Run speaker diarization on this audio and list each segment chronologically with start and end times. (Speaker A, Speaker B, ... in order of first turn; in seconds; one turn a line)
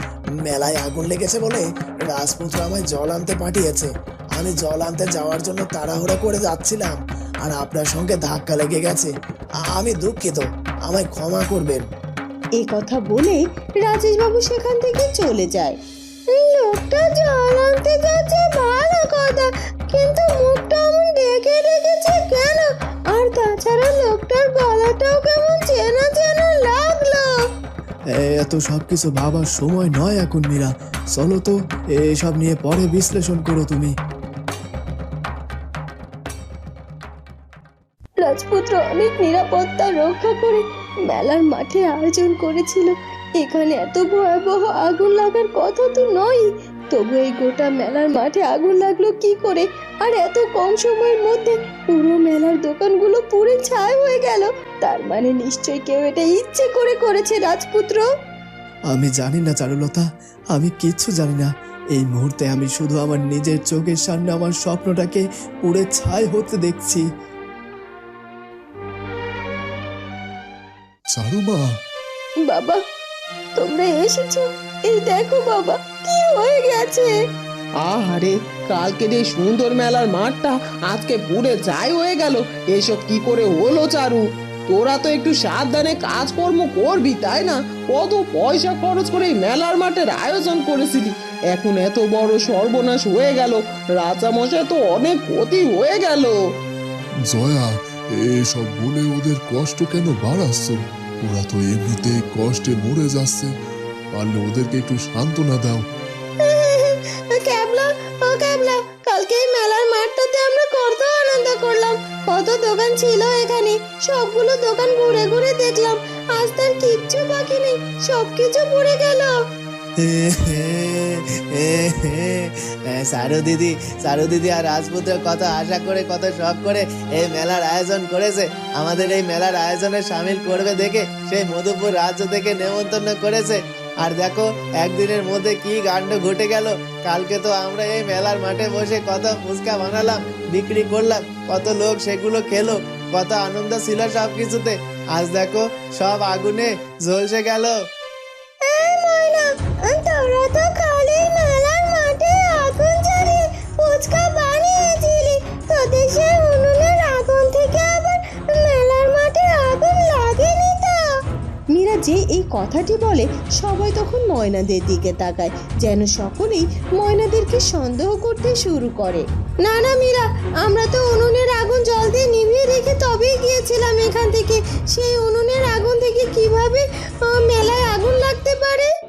Speaker A: 0.5-9.1
Speaker A: 9.7-11.8
Speaker B: 12.6-15.8
Speaker B: 16.3-27.3
Speaker C: 28.2-33.9
Speaker B: 38.2-58.0
Speaker C: 58.9-67.0
Speaker D: 71.1-71.6
Speaker B: 72.5-72.8
Speaker B: 73.6-77.1
Speaker E: 77.8-96.4
Speaker D: 97.3-103.5
Speaker D: 104.1-105.8
Speaker B: 106.4-119.4
Speaker F: 120.6-120.9
Speaker F: 121.5-147.7
Speaker B: 148.6-161.0
Speaker B: 161.7-178.9